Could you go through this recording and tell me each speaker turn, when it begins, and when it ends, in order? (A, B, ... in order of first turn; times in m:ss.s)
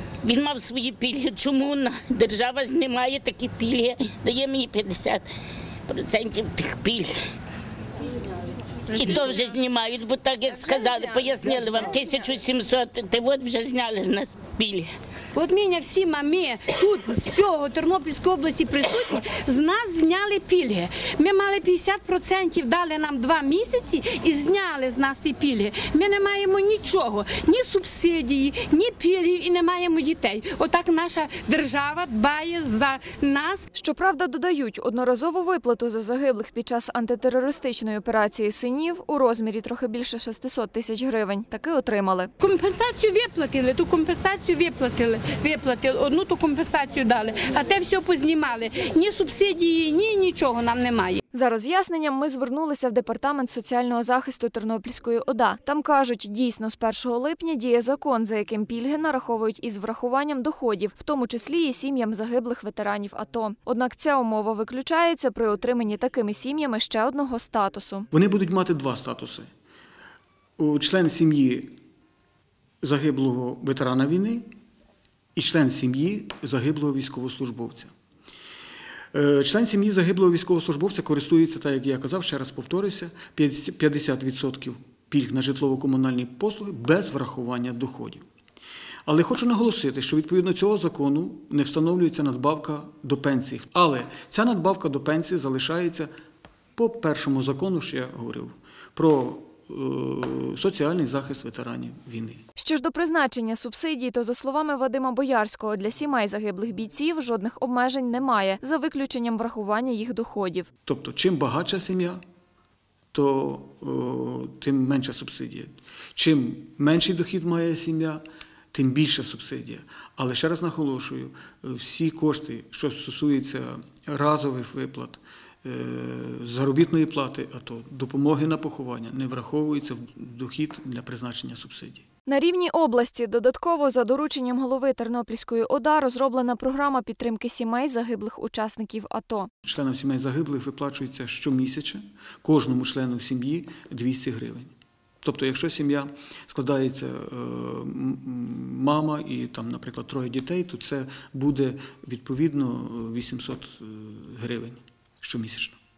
0:00.2-0:05.2 A
0:05.9-0:07.1 A
0:08.9-0:14.9 A
0:15.3-0:33.7 B
0:33.8-0:42.3 C
0:42.4-0:51.2 B
0:51.3-1:08.1 C
1:08.1-1:09.5 D
1:10.6-1:11.7 D
1:12.8-1:14.5 D
1:15.4-1:17.9 D
1:19.1-1:28.3 D
1:29.1-1:36.1 D
1:36.8-1:42.4 D
1:42.6-1:50.7 C
1:50.9-1:52.2 D
1:53.1-2:12.0 D
2:12.3-2:19.5 C
2:19.6-2:24.7 D
2:25.2-2:35.8 D